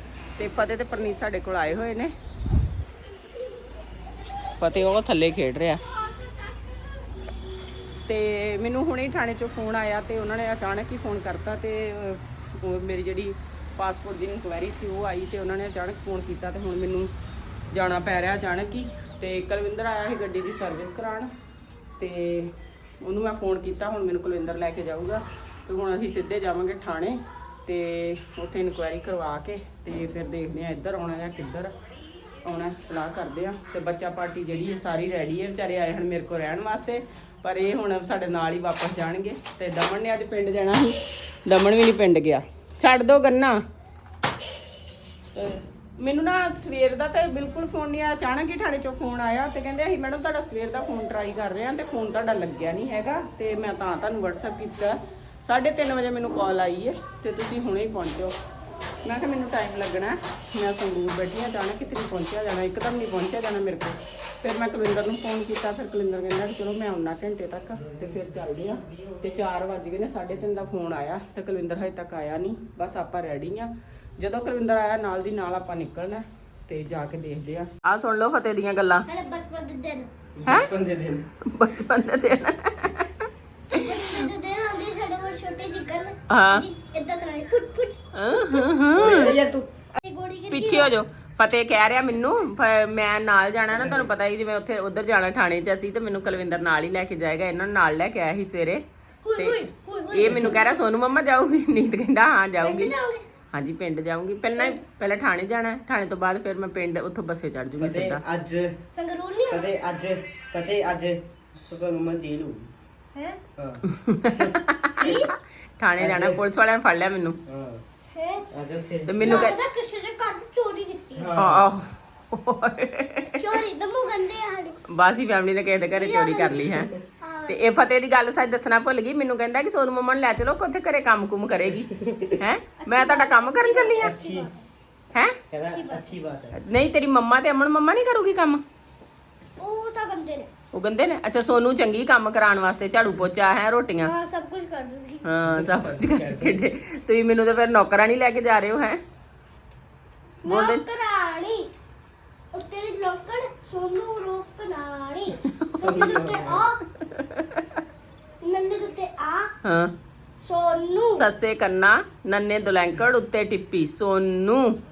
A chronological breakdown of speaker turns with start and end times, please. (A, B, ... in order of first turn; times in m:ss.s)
0:00.4-0:02.1 A
0:04.6-0:05.8 A
0:08.1-0:17.1 A
0:17.7-0:21.3 A
0:22.0-0:31.7 A
0:32.4-0:41.0 A
0:41.5-0:43.6 A
0:45.4-0:58.3 A
0:59.0-1:19.1 A
1:19.1-1:20.1 B
1:20.4-1:21.3 C
1:21.5-1:23.1 A
1:23.7-1:24.3 A
1:23.8-1:28.7 B
1:26.3-1:26.7 A
1:28.1-1:29.4 A
1:29.0-1:29.9 C
1:30.0-1:30.9 B
1:30.5-1:38.8 A
1:33.7-1:34.0 C
1:39.2-1:40.8 B
1:40.1-1:43.0 A
1:42.6-1:43.3 B
1:43.5-1:48.2 A
1:47.8-1:48.8 C
1:48.9-1:49.7 B
1:49.5-1:52.7 C
1:53.2-1:53.4 B
1:53.6-1:53.8 C
1:54.0-1:57.4 A
1:55.0-1:55.3 B
1:56.0-1:56.4 C
1:57.5-1:57.8 C
1:58.1-1:58.4 B
1:58.5-1:59.5 C
1:59.1-1:59.6 A
1:59.2-2:01.3 B
2:01.2-2:01.7 C
2:01.4-2:03.6 A
2:03.4-2:04.8 B
2:04.9-2:06.9 A
2:06.0-2:06.7 B
2:07.2-2:07.6 B
2:07.5-2:14.2 A
2:12.8-2:14.6 B
2:14.0-2:14.5 C
2:15.5-2:16.6 C
2:15.7-2:16.1 B
2:16.6-2:18.6 A
2:19.6-2:20.5 B
2:20.7-2:24.2 A
2:24.0-2:25.3 B
2:25.2-2:29.0 A
2:25.5-2:26.6 C
2:30.4-2:31.7 B
2:30.4-2:30.8 A
2:32.5-2:36.8 B
2:35.8-2:36.7 C
2:38.4-2:39.5 B
2:39.6-2:39.9 A
2:40.4-2:41.3 B
2:41.1-2:44.8 A